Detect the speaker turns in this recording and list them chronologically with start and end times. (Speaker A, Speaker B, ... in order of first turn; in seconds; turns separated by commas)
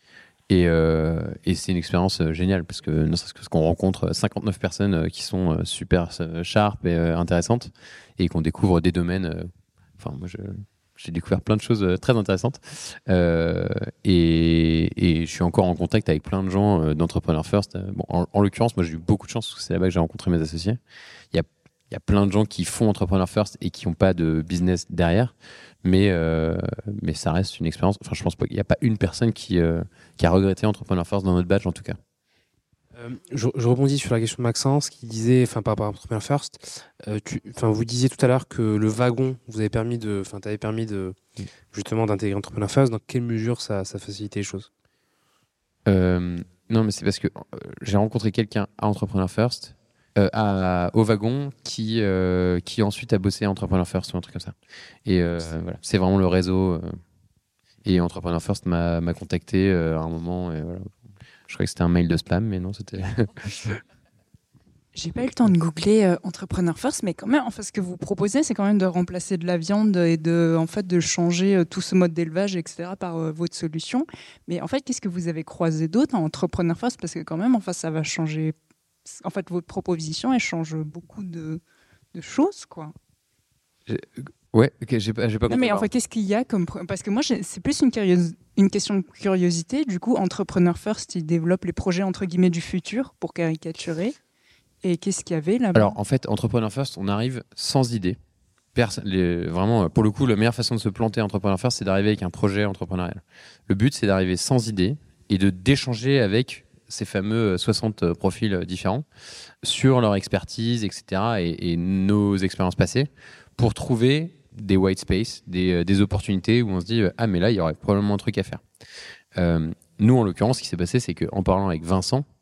Speaker A: 0.5-20.8, Speaker A: 21.3-32.0, Speaker B: 32.9-41.1, Speaker B: 41.7-44.7, Speaker A: 45.9-54.5, Speaker A: 55.0-57.0, Speaker A: 57.8-60.9, Speaker A: 61.5-63.8, Speaker C: 64.9-78.5, Speaker C: 79.1-81.6, Speaker C: 82.1-82.9, Speaker A: 83.9-85.9, Speaker C: 85.5-94.2, Speaker C: 94.8-96.0, Speaker A: 95.7-98.2, Speaker A: 98.7-109.0, Speaker A: 109.6-118.6, Speaker A: 119.4-122.2